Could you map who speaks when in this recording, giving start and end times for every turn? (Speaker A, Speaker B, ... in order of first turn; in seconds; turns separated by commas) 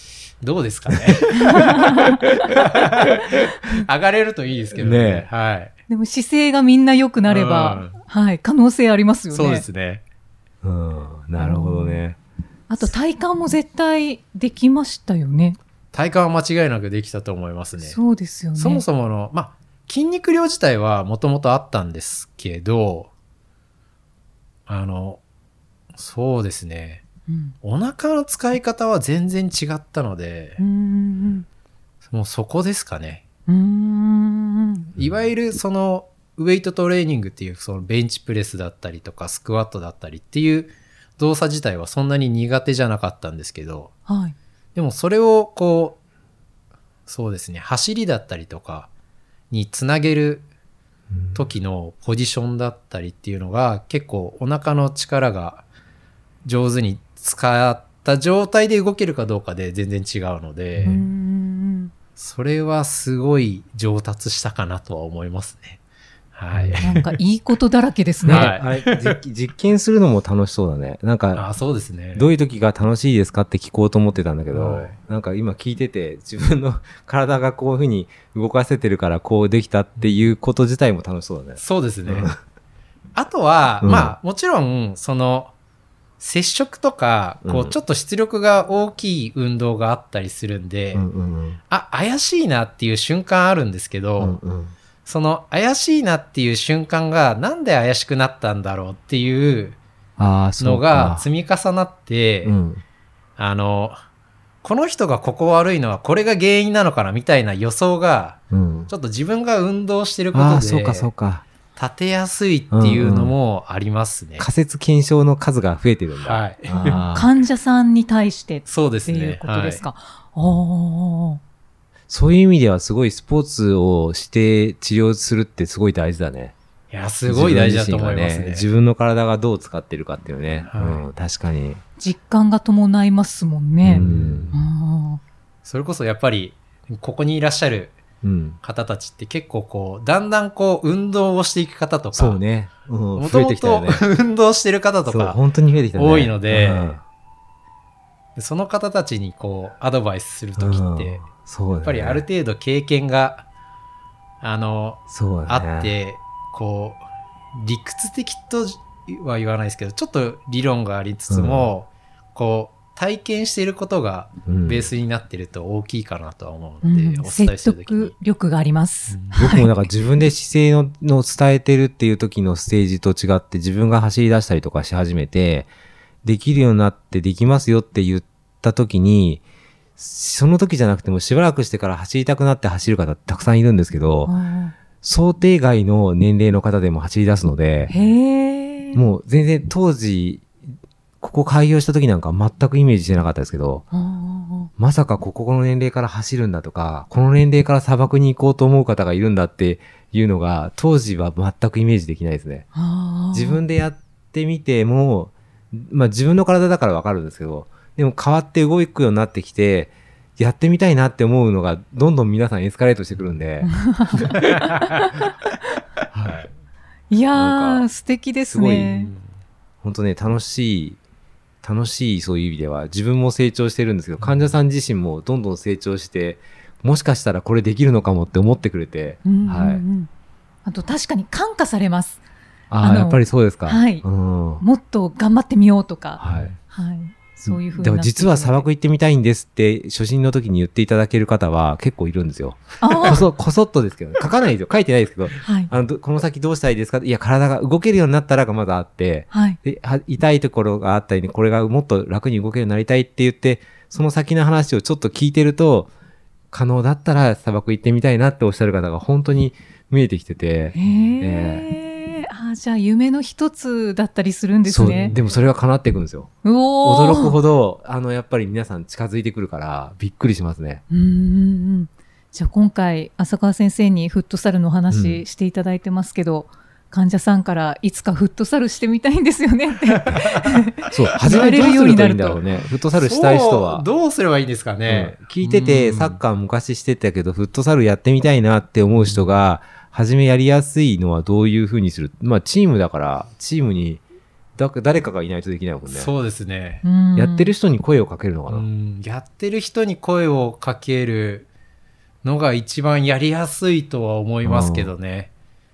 Speaker A: 0.4-5.7, Speaker B: 0.9-3.1, Speaker C: 1.5-2.2, Speaker B: 4.8-5.3, Speaker C: 5.9-9.6, Speaker A: 7.3-8.0, Speaker A: 9.3-10.0, Speaker B: 10.6-12.2, Speaker C: 11.3-12.0, Speaker C: 12.7-15.6, Speaker A: 15.9-18.0, Speaker C: 17.9-18.8, Speaker A: 18.6-23.1, Speaker A: 24.7-25.2, Speaker A: 25.9-27.0, Speaker C: 27.3-27.5, Speaker A: 27.6-30.6, Speaker C: 30.6-31.4, Speaker A: 32.1-33.2, Speaker C: 33.5-34.9, Speaker A: 34.9-43.9, Speaker C: 44.1-44.3, Speaker A: 44.8-46.0, Speaker A: 47.1-48.9, Speaker A: 49.5-50.5, Speaker B: 51.1-51.4, Speaker A: 51.3-55.6, Speaker A: 56.4-61.0, Speaker C: 60.8-61.9, Speaker A: 62.2-65.8, Speaker A: 66.3-67.1, Speaker B: 66.5-66.8, Speaker C: 66.8-68.5, Speaker B: 68.2-71.4, Speaker A: 68.3-69.2, Speaker A: 71.3-72.3, Speaker B: 72.1-82.3, Speaker A: 74.5-75.0, Speaker A: 80.0-80.2, Speaker A: 81.6-82.3, Speaker A: 83.1-85.5, Speaker B: 83.8-84.1, Speaker A: 86.2-91.0, Speaker B: 87.4-87.8, Speaker B: 90.9-91.6, Speaker A: 91.7-94.4, Speaker B: 94.2-94.7, Speaker A: 95.0-99.8, Speaker B: 100.2-101.2, Speaker A: 100.6-102.5, Speaker B: 102.4-102.8, Speaker A: 103.4-104.0, Speaker A: 104.6-111.1, Speaker B: 108.5-108.9, Speaker B: 110.3-111.4, Speaker A: 111.8-114.5, Speaker B: 112.7-113.3, Speaker B: 114.4-117.3, Speaker A: 116.2-117.0, Speaker C: 117.1-121.4, Speaker A: 118.7-119.8, Speaker B: 122.1-126.5, Speaker A: 126.9-128.7, Speaker B: 127.3-131.8, Speaker A: 130.7-131.1, Speaker C: 132.0-135.2, Speaker B: 133.8-134.5, Speaker A: 133.9-134.6, Speaker A: 135.6-138.0, Speaker B: 138.2-138.6, Speaker A: 138.6-142.4, Speaker B: 142.1-144.0, Speaker A: 143.2-145.4, Speaker B: 145.1-147.0, Speaker A: 145.9-147.0, Speaker A: 148.3-151.2, Speaker B: 150.6-152.2, Speaker A: 151.8-153.4, Speaker A: 154.4-157.0, Speaker B: 155.1-155.9, Speaker A: 157.5-168.1, Speaker B: 161.3-161.7, Speaker B: 164.4-164.9, Speaker C: 166.8-169.8, Speaker A: 169.1-169.3, Speaker B: 169.3-175.7, Speaker B: 176.2-179.4, Speaker B: 180.0-184.3, Speaker C: 184.2-184.7, Speaker B: 185.0-187.9, Speaker C: 187.9-189.0, Speaker B: 188.9-190.5, Speaker B: 191.2-193.9, Speaker C: 193.9-194.7, Speaker B: 194.8-202.7, Speaker C: 202.7-203.6, Speaker B: 203.3-214.4, Speaker C: 213.6-214.4, Speaker A: 214.4-215.1, Speaker B: 216.1-216.5, Speaker C: 217.1-219.1, Speaker B: 217.3-217.9, Speaker B: 218.4-219.0, Speaker B: 219.8-221.0, Speaker B: 221.6-229.8, Speaker A: 224.2-224.5, Speaker C: 229.2-230.1, Speaker C: 230.6-232.2, Speaker B: 232.7-234.6, Speaker C: 232.8-234.1, Speaker C: 234.6-238.7, Speaker B: 236.2-236.5, Speaker A: 236.3-236.5, Speaker B: 237.4-255.9, Speaker C: 242.8-243.2, Speaker C: 245.4-245.7, Speaker C: 249.3-249.6, Speaker B: 256.5-261.6, Speaker C: 260.7-265.1, Speaker B: 264.6-266.3, Speaker A: 264.9-265.2, Speaker C: 266.4-267.4, Speaker B: 266.8-270.8, Speaker C: 270.9-282.4, Speaker B: 274.9-275.2, Speaker A: 279.9-280.4, Speaker B: 280.9-283.9, Speaker A: 282.9-286.2, Speaker B: 284.9-294.0, Speaker B: 294.6-296.1, Speaker A: 295.9-296.8, Speaker C: 296.8-297.5, Speaker B: 297.1-298.6, Speaker A: 298.5-301.5, Speaker A: 302.2-305.3, Speaker B: 304.4-304.9